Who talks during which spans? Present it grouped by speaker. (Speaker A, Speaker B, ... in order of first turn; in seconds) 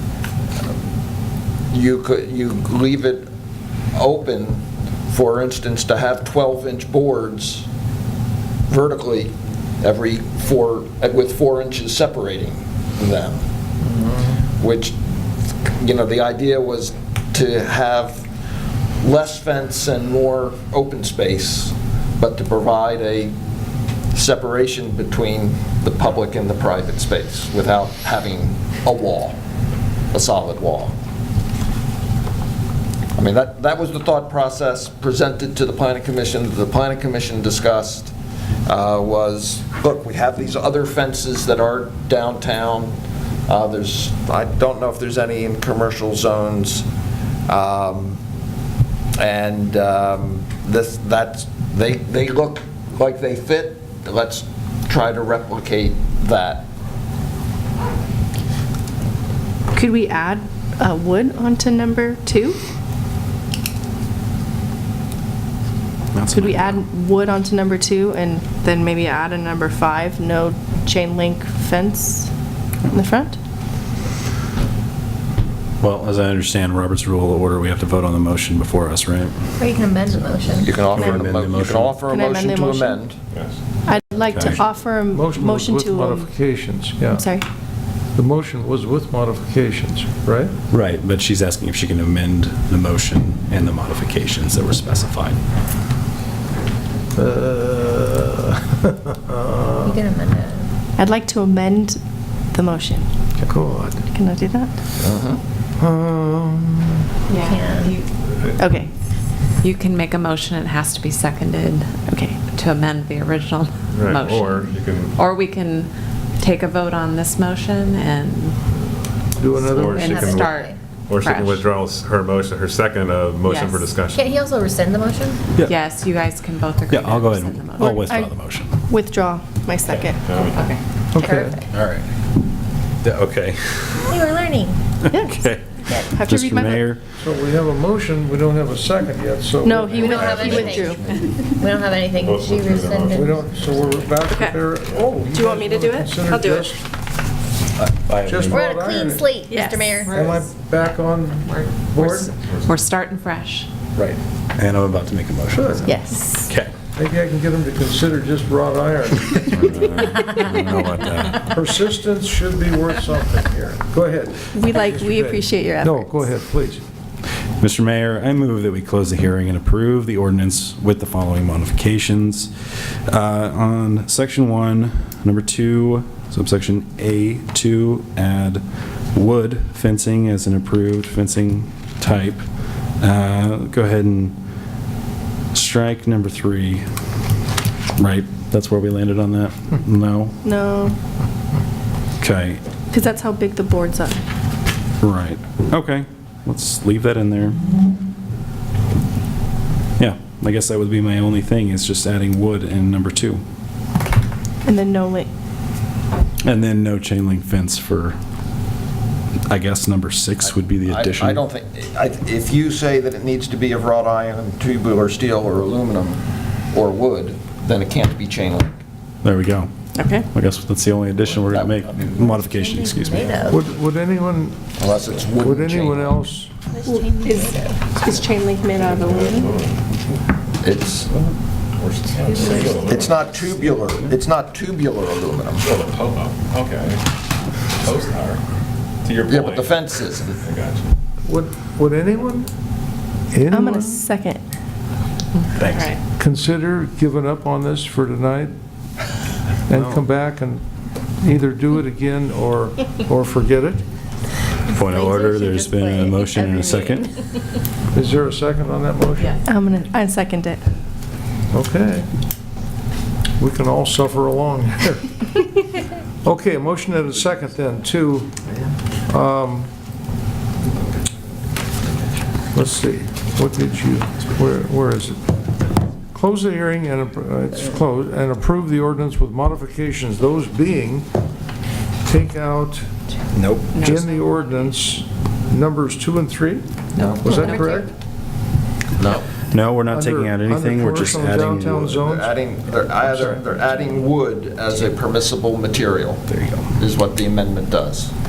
Speaker A: 1.7-3.3, 4.0-7.7, 8.7-13.4, 14.6-15.0, 15.8-18.3, 19.0-23.4, 24.1-29.4, 30.1-30.9, 33.2-38.1, 38.7-42.9, 43.5-46.9, 47.5-48.2, 49.2-56.7, 80.6-83.2, 105.0-105.4, 210.4-218.8, 221.4-222.5, 224.8-226.3, 230.6-231.1, 232.8-235.7, 239.3-240.4, 287.0-287.2, 289.0-289.3, 292.0-296.2, 296.8-298.1
Speaker B: 59.7-62.6, 66.3-72.3, 72.9-73.4, 82.1-83.0, 83.8-86.3, 87.1-87.5, 101.0-102.0, 102.5-103.1, 104.1-104.7, 108.6-108.9, 112.1-112.4, 127.8-128.4, 128.9-130.3, 135.1-136.8, 139.6-141.5, 145.3-146.6, 149.5-150.0, 155.8-156.5, 164.5-166.3, 190.4-191.0, 192.9-194.2, 204.7-205.3, 220.0-220.2, 226.8-229.5, 243.5-244.4, 259.5-260.6
Speaker C: 66.1-66.8, 75.8-79.5, 80.7-82.0, 84.3-84.6, 90.7-95.4, 126.9-128.7, 131.7-132.1, 133.0-134.2, 135.1-137.0, 147.8-149.0, 154.6-156.7, 159.5-161.6, 167.6-182.4, 183.0-184.4, 185.5-186.9, 188.0-190.4, 192.2-192.6, 195.0-197.6, 200.0-203.4, 206.4-208.2, 209.5-211.4, 219.2-223.5, 245.6-246.0, 249.7-250.0, 254.7-257.1, 283.3-283.8, 289.5-292.0, 296.3-296.7
Speaker D: 79.6-80.7, 99.8-100.7, 107.5-107.9, 119.6-120.8, 124.1-125.4, 131.2-131.5, 134.1-134.8, 139.9-144.1, 148.6-150.2, 222.6-223.6, 226.8-227.8, 232.2-232.8, 254.8-257.0, 287.2-287.8
Speaker E: 83.3-83.6, 113.9-115.2, 119.7-124.4, 130.2-130.7, 142.2-144.1, 144.7-145.2, 152.4-152.8, 228.7-229.9, 231.8-233.9, 235.6-237.0, 237.8-238.4, 239.0-240.9
Speaker F: 85.1-87.3, 88.2-90.5, 97.2-100.1, 103.4-104.0, 105.8-107.0, 119.4-120.1, 131.1-131.6, 137.2-140.8, 143.1-146.8, 148.2-149.4, 150.1-152.3, 155.5-155.9, 156.9-159.8, 161.5-166.8, 223.5-224.7, 225.3-226.6, 241.2-242.5, 243.3-244.1, 246.2-248.5, 249.7-250.6, 251.2-253.8, 257.9-259.4, 261.5-262.1, 263.4-265.2, 266.2-268.3, 269.1-269.7, 272.5-275.2, 276.1-281.1, 282.0-282.9, 283.8-286.7, 287.2-287.9, 289.9-293.6
Speaker G: 107.3-108.1, 109.6-118.6, 119.8-121.7, 123.4-123.9, 125.6-128.0, 130.3-130.8, 144.3-144.6, 150.1-150.4, 151.5-153.7, 245.6-246.0, 283.7-284.2, 286.9-287.9